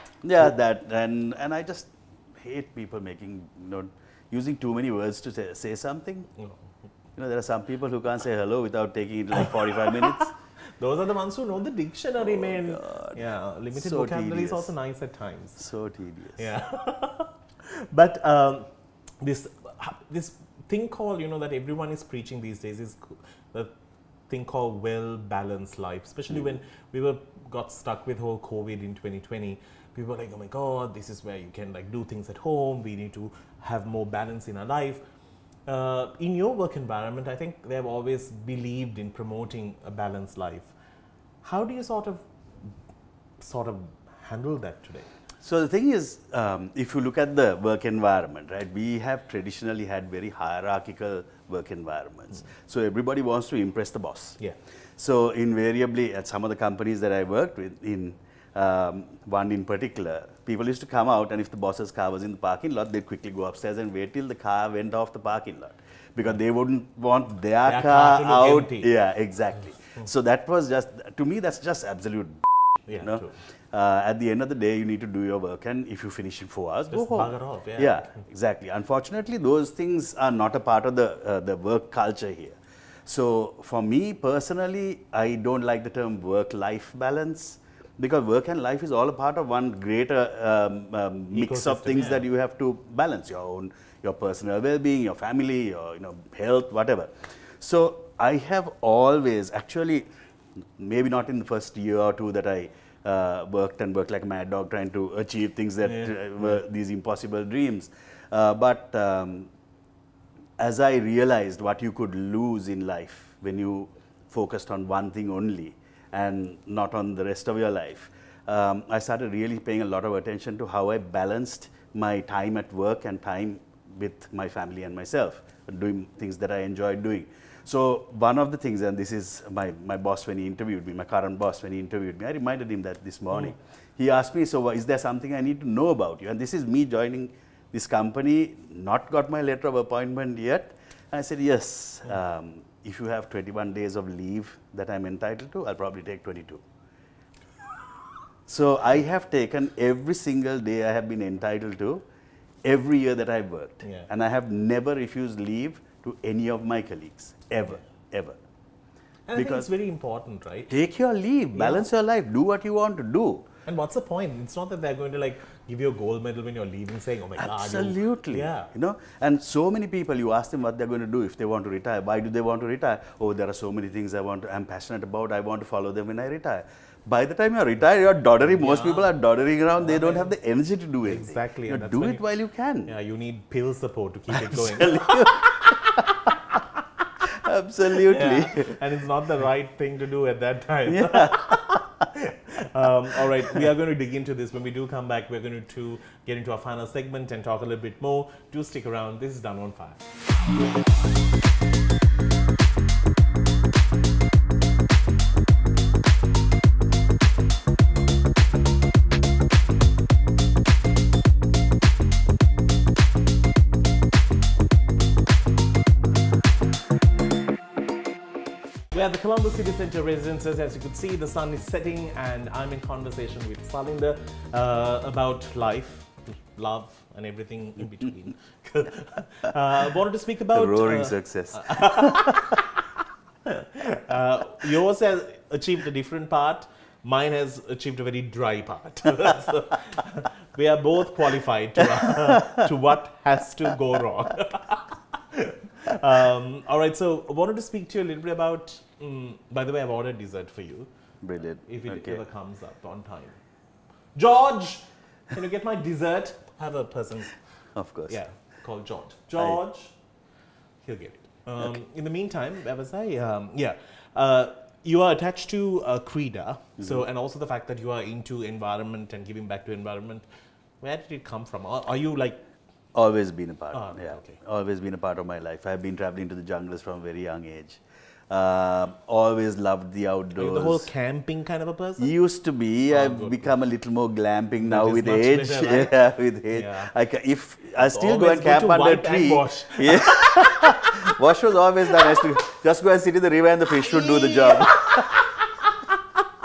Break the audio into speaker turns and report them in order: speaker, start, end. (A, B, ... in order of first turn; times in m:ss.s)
0:00.2-0:06.3 A
0:07.2-0:10.3 A
0:09.3-0:15.6 B
0:12.2-0:13.2 A
0:13.7-0:14.7 A
0:15.6-0:16.4 A
0:16.4-0:18.7 B
0:19.2-0:23.7 B
0:24.3-0:35.0 B
0:35.7-0:40.7 B
0:41.4-0:42.2 B
0:43.4-0:45.1 B
0:45.4-0:54.4 A
0:55.0-1:40.1 A
1:07.6-1:08.9 B
1:12.9-1:13.4 B
1:16.9-1:18.2 B
1:31.3-1:32.2 B
1:40.6-1:49.5 A
1:45.8-1:46.6 B
1:50.6-2:26.6 A
2:28.5-2:32.0 A
2:32.6-2:38.4 A
2:33.8-2:34.1 B
2:39.3-2:40.7 B
2:39.3-2:39.7 A
2:40.7-2:43.5 A
2:41.5-2:41.8 B
2:43.6-2:48.7 B
2:47.4-3:02.9 A
2:58.4-2:59.1 B
2:59.8-3:00.3 B
3:01.0-3:02.2 B
3:02.8-3:06.6 B
3:04.3-3:06.3 A
3:07.3-3:08.8 A
3:07.9-3:20.0 B
3:10.9-3:11.4 A
3:38.9-3:52.8 B
3:50.5-3:52.6 A
3:53.4-4:10.9 B
4:02.0-4:02.6 A
4:11.2-4:12.2 A
4:11.7-4:13.4 B
4:14.1-4:17.3 B
4:17.7-4:18.2 A
4:18.1-4:19.9 B
4:20.8-4:30.2 B
4:26.8-4:27.0 A
4:30.8-4:32.4 B
4:32.9-4:40.9 A
4:33.7-4:34.4 B
4:40.4-4:42.1 B
4:42.0-4:55.2 A
4:42.9-4:43.5 B
4:44.6-4:46.0 B
4:46.5-4:46.9 B
4:47.8-4:51.1 B
4:51.9-4:52.2 B
4:53.9-4:55.7 B